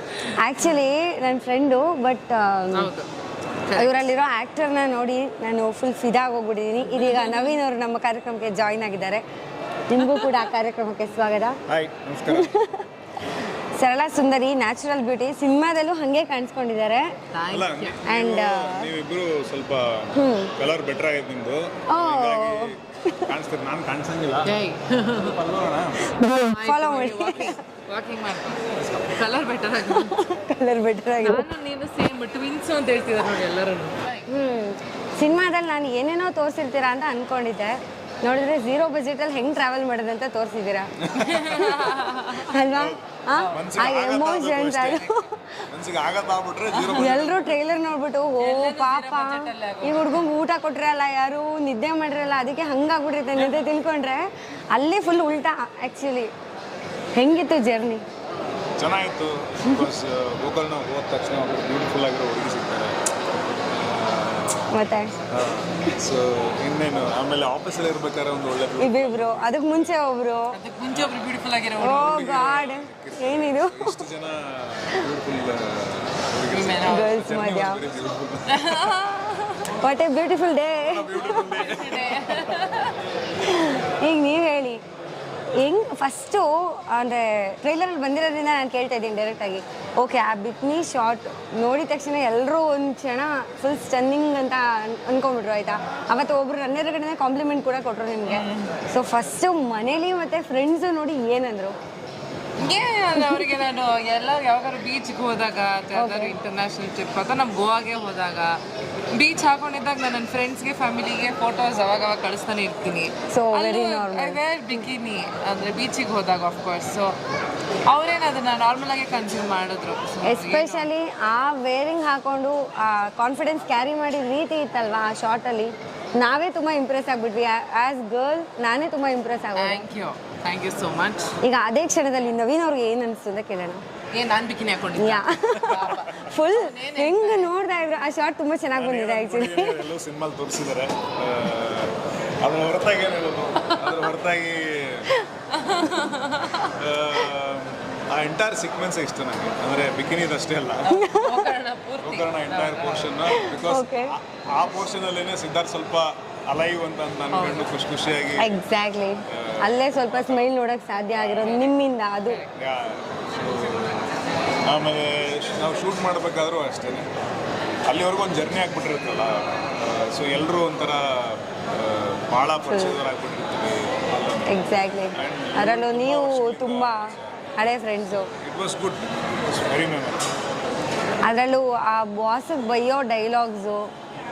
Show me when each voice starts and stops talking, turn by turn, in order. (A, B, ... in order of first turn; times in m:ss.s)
0:00.4-0:02.9 A
0:02.7-0:03.1 B
0:03.6-0:04.1 B
0:03.8-0:09.2 A
0:06.8-0:07.6 B
0:09.9-0:11.6 A
0:10.0-0:10.4 B
0:11.7-0:12.5 C
0:12.3-0:12.8 A
0:13.8-0:17.1 A
0:17.3-0:18.0 B
0:17.5-0:24.6 C
0:18.0-0:18.9 A
0:20.2-0:20.5 A
0:21.9-0:23.3 A
0:24.4-0:25.4 B
0:25.2-0:26.0 C
0:26.1-0:27.6 A
0:26.4-0:30.2 B
0:29.9-0:31.5 A
0:31.2-0:34.3 B
0:34.3-0:40.9 A
0:41.0-0:41.9 C
0:41.2-0:42.5 B
0:42.4-0:45.6 A
0:42.5-0:43.0 C
0:43.3-0:43.6 B
0:43.5-0:45.2 C
0:45.7-0:47.5 C
0:46.7-0:47.2 B
0:47.0-0:56.3 A
0:48.4-0:50.3 B
0:57.2-0:58.0 A
0:58.8-1:03.0 C
1:03.7-1:04.7 C
1:04.7-1:05.1 A
1:05.3-1:09.9 C
1:08.8-1:10.5 A
1:10.5-1:12.3 B
1:11.8-1:14.0 A
1:11.9-1:18.9 C
1:16.5-1:17.1 B
1:16.9-1:17.8 A
1:18.5-1:19.8 B
1:19.8-1:21.6 A
1:20.8-1:22.6 C
1:21.4-1:23.0 B
1:23.4-1:24.8 A
1:25.6-1:41.8 A
1:38.3-1:38.8 B
1:42.6-1:48.6 B
1:43.2-1:43.5 A
1:45.9-1:46.3 A
1:49.1-1:57.1 B
1:53.3-1:54.4 A
1:57.9-2:00.9 B
2:00.2-2:09.8 A
2:09.6-2:11.4 B
2:11.4-2:13.8 A
2:14.1-2:17.5 B
2:15.0-2:19.8 A
2:18.7-2:25.1 C
2:25.5-2:26.7 B
2:26.8-2:30.8 C
2:30.8-2:33.1 B
2:31.0-2:31.4 A
2:32.0-2:38.6 C
2:33.3-2:34.1 A
2:37.3-2:37.7 B
2:38.4-2:42.4 A
2:39.2-2:40.5 C
2:41.2-2:41.6 C
2:41.4-2:41.7 B
2:42.5-2:44.0 C
2:43.4-2:44.6 B
2:44.6-2:47.1 C
2:47.9-2:57.4 C
2:52.7-2:53.0 A
2:54.5-2:58.3 A
2:58.1-3:00.2 C
3:01.2-3:03.8 A